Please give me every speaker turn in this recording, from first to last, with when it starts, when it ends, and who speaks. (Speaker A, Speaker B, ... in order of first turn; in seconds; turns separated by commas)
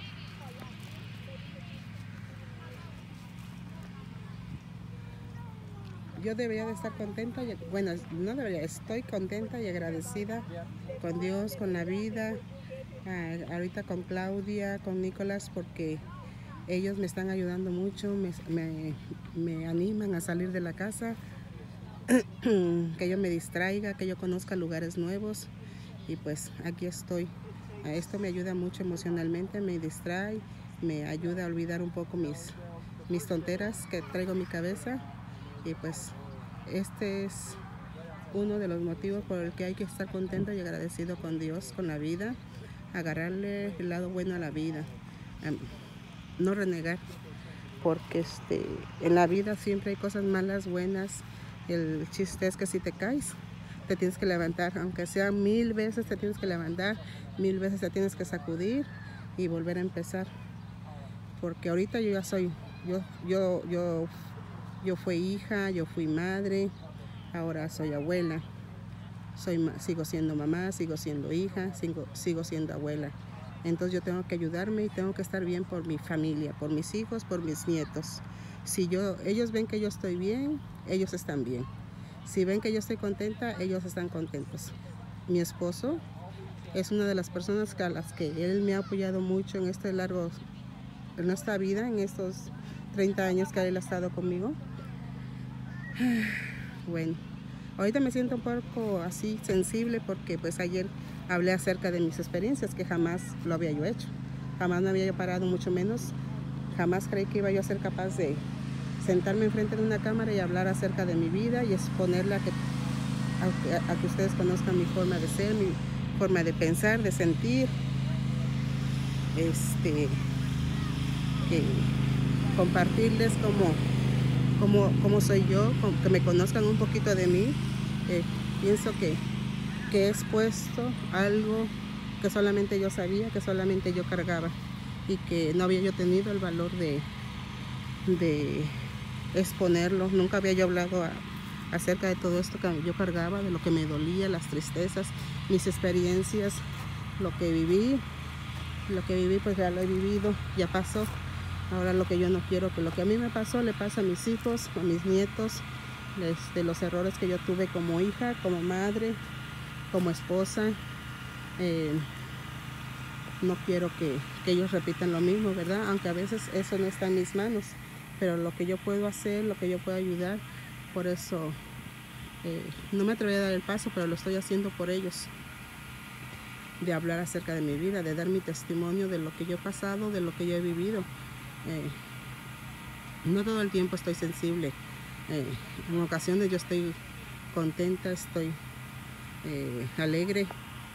Speaker A: 6.2-12.4, Speaker A: 13.0-16.0, Speaker A: 16.7-21.2, Speaker A: 22.1-25.5, Speaker A: 26.1-35.0, Speaker A: 35.6-37.6, Speaker A: 38.3-42.4, Speaker A: 42.9-45.8, Speaker A: 46.4-47.0, Speaker A: 47.8-60.3, Speaker A: 61.4-64.1, Speaker A: 64.8-66.7, Speaker A: 67.3-68.5, Speaker A: 69.3-81.7, Speaker A: 82.2-84.8, Speaker A: 85.3-86.0, Speaker A: 86.7-90.4, Speaker A: 91.2-94.6, Speaker A: 96.0-97.2, Speaker A: 97.8-106.1, Speaker A: 106.7-108.4, Speaker A: 109.0-112.5, Speaker A: 113.4-117.7, Speaker A: 119.3-120.3, Speaker A: 121.4-121.9, Speaker A: 122.5-123.8, Speaker A: 124.6-129.2, Speaker A: 129.9-134.6, Speaker A: 135.1-137.1, Speaker A: 138.1-138.8, Speaker A: 139.3-146.6, Speaker A: 147.2-148.0, Speaker A: 148.9-151.1, Speaker A: 151.7-159.2, Speaker A: 159.9-160.8, Speaker A: 161.6-162.1, Speaker A: 163.4-171.6, Speaker A: 172.4-175.3, Speaker A: 176.8-181.1, Speaker A: 181.6-182.0, Speaker A: 183.2-184.8, Speaker A: 185.3-187.0, Speaker A: 187.5-188.6, Speaker A: 189.4-190.5